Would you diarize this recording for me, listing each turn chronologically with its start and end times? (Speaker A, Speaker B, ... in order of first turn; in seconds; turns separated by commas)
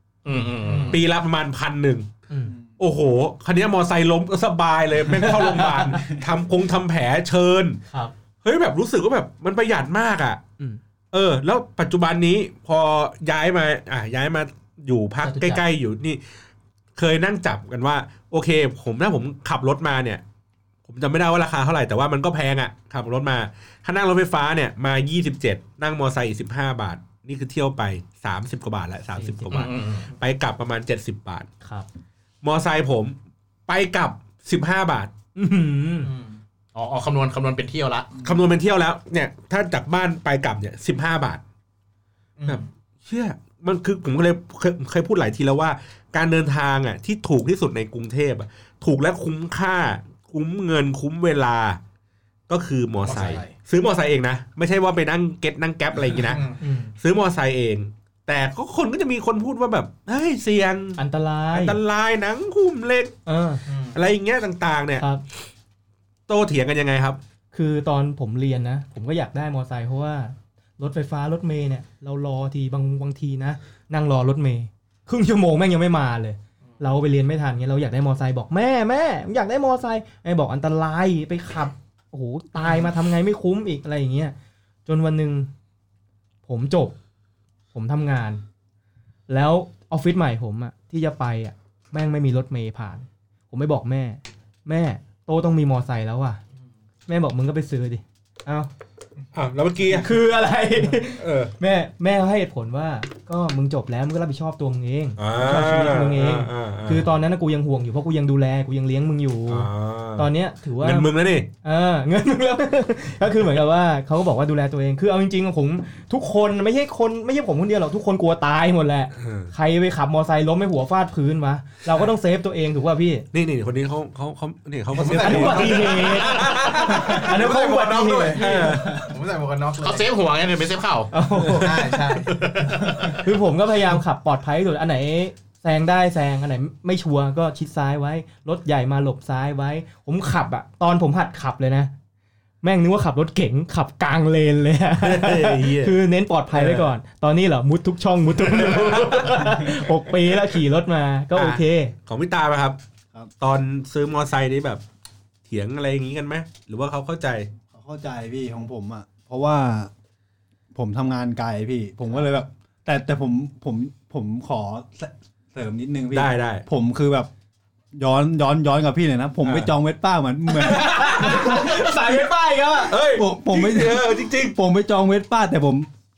Speaker A: 0.2-1.0, Speaker B: 0.6-1.0, Speaker C: 0.9-2.1, Speaker D: 2.3-2.5, Speaker C: 2.8-7.8, Speaker D: 5.2-6.1, Speaker C: 8.4-10.4, Speaker C: 11.1-16.2, Speaker D: 15.2-15.7, Speaker C: 16.9-20.2, Speaker C: 20.9-31.5, Speaker D: 29.1-29.7, Speaker A: 29.5-30.1, Speaker D: 31.6-31.9, Speaker C: 32.4-33.2, Speaker C: 33.7-35.1, Speaker D: 35.4-36.1, Speaker B: 36.0-36.4, Speaker A: 36.7-38.1, Speaker C: 38.2-41.4, Speaker B: 42.4-42.7, Speaker C: 42.5-51.8, Speaker C: 52.5-56.4, Speaker B: 53.0-53.6, Speaker B: 56.1-56.6, Speaker D: 56.6-56.9, Speaker C: 57.0-63.1, Speaker D: 61.0-61.8, Speaker D: 63.3-63.6, Speaker B: 63.7-64.0, Speaker C: 63.9-65.1, Speaker D: 65.0-65.2, Speaker C: 66.3-67.2, Speaker D: 67.5-84.3, Speaker D: 84.9-85.5, Speaker D: 86.5-87.0, Speaker D: 87.7-88.4, Speaker D: 89.3-96.4, Speaker D: 97.1-98.7, Speaker C: 99.3-100.2, Speaker D: 99.9-111.1, Speaker C: 101.2-101.5, Speaker C: 105.2-107.1, Speaker C: 109.5-111.5, Speaker D: 111.6-123.3, Speaker C: 119.2-119.5, Speaker C: 123.3-127.3, Speaker B: 124.9-130.1, Speaker D: 125.0-128.5, Speaker C: 128.3-129.1, Speaker A: 129.8-131.1, Speaker D: 131.1-132.0, Speaker C: 131.4-131.7, Speaker B: 131.6-132.4, Speaker A: 132.2-133.2, Speaker D: 133.2-141.9, Speaker D: 142.6-151.9, Speaker C: 145.0-146.0, Speaker C: 146.5-146.9, Speaker C: 148.7-149.3, Speaker C: 151.3-152.8, Speaker C: 153.4-154.8, Speaker C: 155.5-157.5, Speaker E: 157.7-159.9, Speaker E: 160.7-167.3, Speaker C: 166.1-166.7, Speaker E: 167.9-171.8, Speaker C: 169.4-169.7, Speaker D: 170.5-173.0, Speaker C: 170.9-171.7, Speaker C: 172.9-174.6, Speaker E: 173.1-175.9